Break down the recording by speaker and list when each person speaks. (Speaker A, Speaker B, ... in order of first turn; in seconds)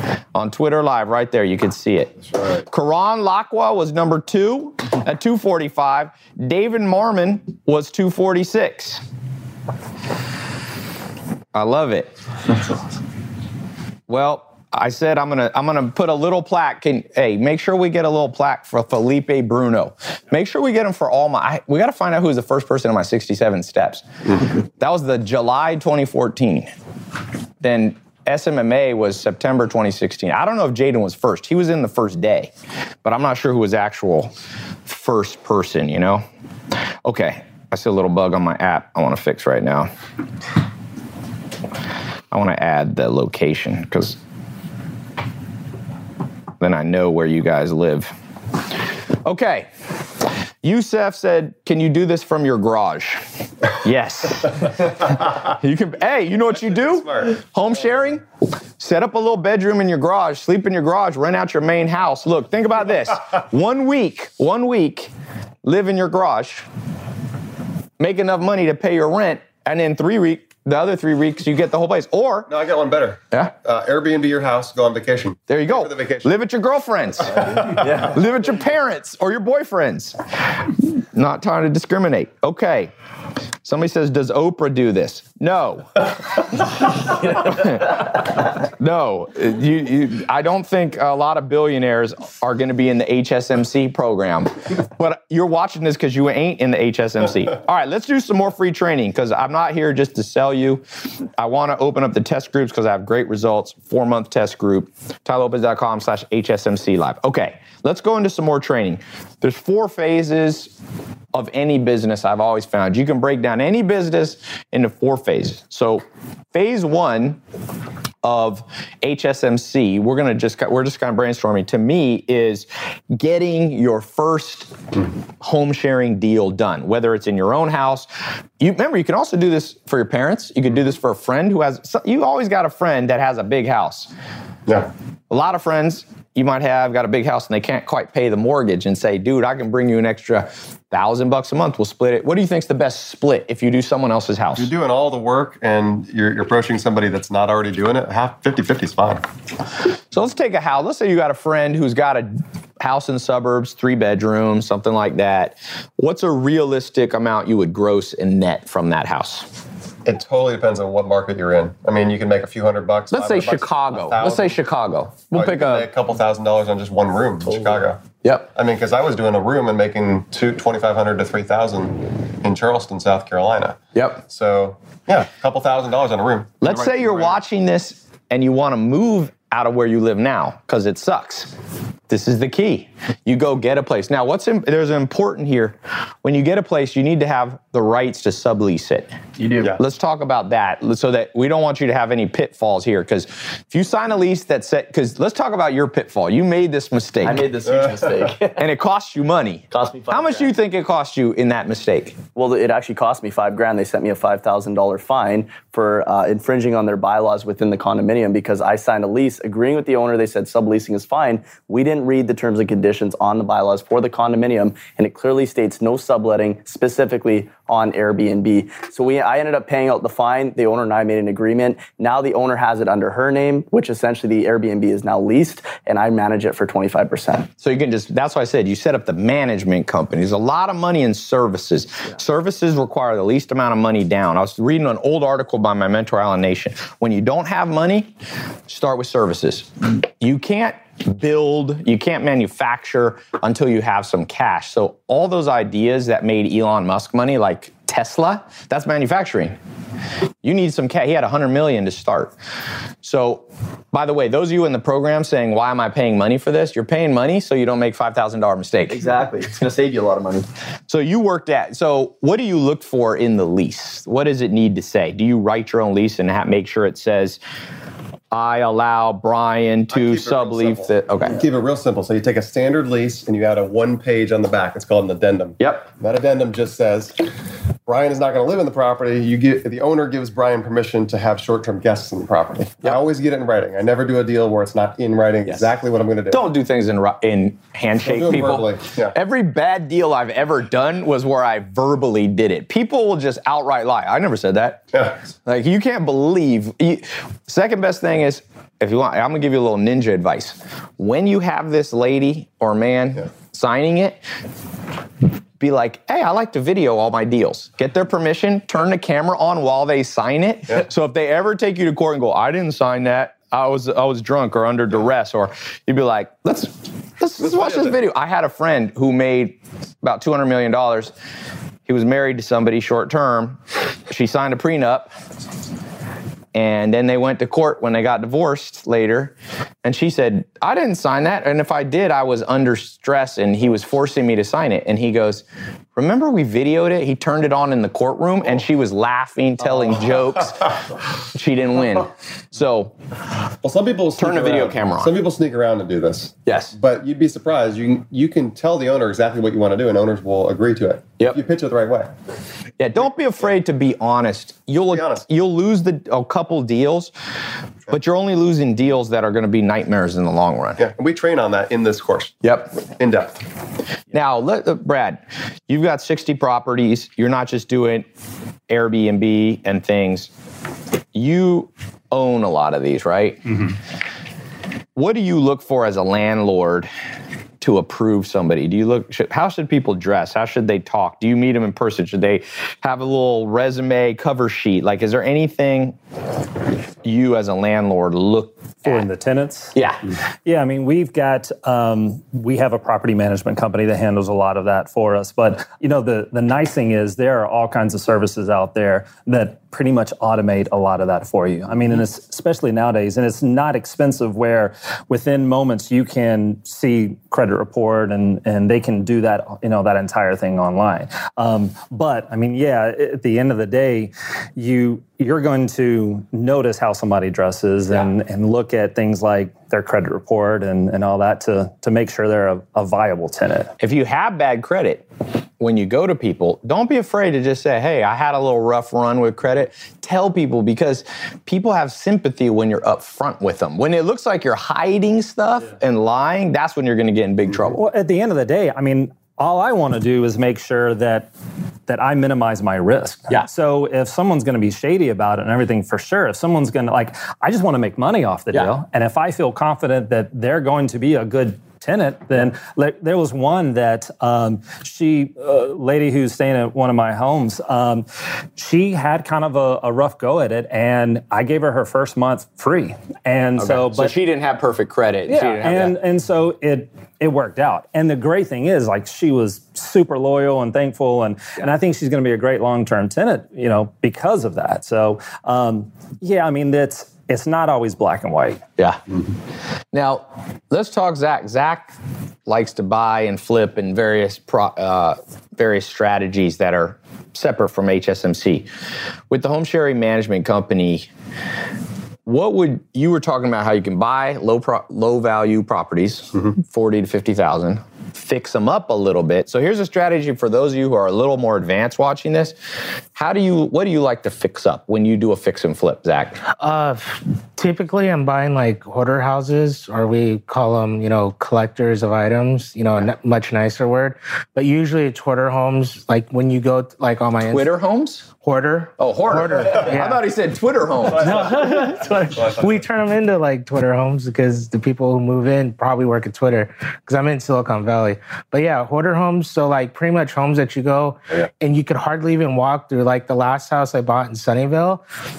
Speaker A: 0.3-9.0, 11.5-12.1, 14.1-24.0, 24.8-26.7, 27.6-32.5, 33.0-34.3, 34.9-36.2, 37.0-39.9, 42.3-44.2, 46.6-48.1, 49.2-49.7, 50.6-53.2, 53.8-58.2, 58.8-65.1, 65.6-66.7, 68.0-72.5, 75.5-82.9, 83.6-86.7, 87.3-100.8, 101.4-110.7, 111.3-117.4, 118.2-124.7, 125.4-128.1, 128.6-134.1, 135.3-144.7, 150.1-159.5, 163.1-165.9, 168.2-168.5, 173.9-174.2, 176.6-181.5, 182.1-189.1, 189.8-197.4, 198.6-202.2, 227.6-238.1, 238.7-249.6, 250.4-252.3, 253.0-259.0, 260.9-267.4, 268.3-271.4, 275.6-275.9, 286.3-294.8, 295.4-304.2, 305.6-321.1, 321.9-325.1, 326.5-342.9, 344.2-345.2, 346.4-346.7, 352.8-357.1, 357.9-360.8, 362.4-362.8, 364.1-368.1, 368.7-370.3, 371.1-373.7, 374.9-376.9, 377.6-385.9, 387.0-389.0, 389.7-390.0, 423.8-425.0, 425.6-437.8, 463.6-465.9, 479.9-481.9, 482.4-488.7, 489.3-491.1, 492.2-502.6, 503.1-506.4, 517.5-518.3, 519.0-521.5
Speaker B: 72.5-76.3, 77.3-78.1, 144.6-149.2, 160.1-164.5, 165.3-168.0, 168.5-177.3, 269.9-277.2, 277.9-286.4, 288.0-289.1, 343.6-352.1, 354.9-355.2, 360.8-362.4, 363.0-363.4, 521.3-521.8, 522.3-522.8
Speaker C: 189.4-189.8, 197.2-198.6, 199.7-200.5, 202.3-227.5, 258.9-260.5
Speaker D: 388.8-389.7, 390.4-423.7, 437.7-441.3, 441.9-458.0, 458.6-464.1, 465.3-478.6
Speaker E: 506.6-517.7, 518.4-520.2, 521.1-535.0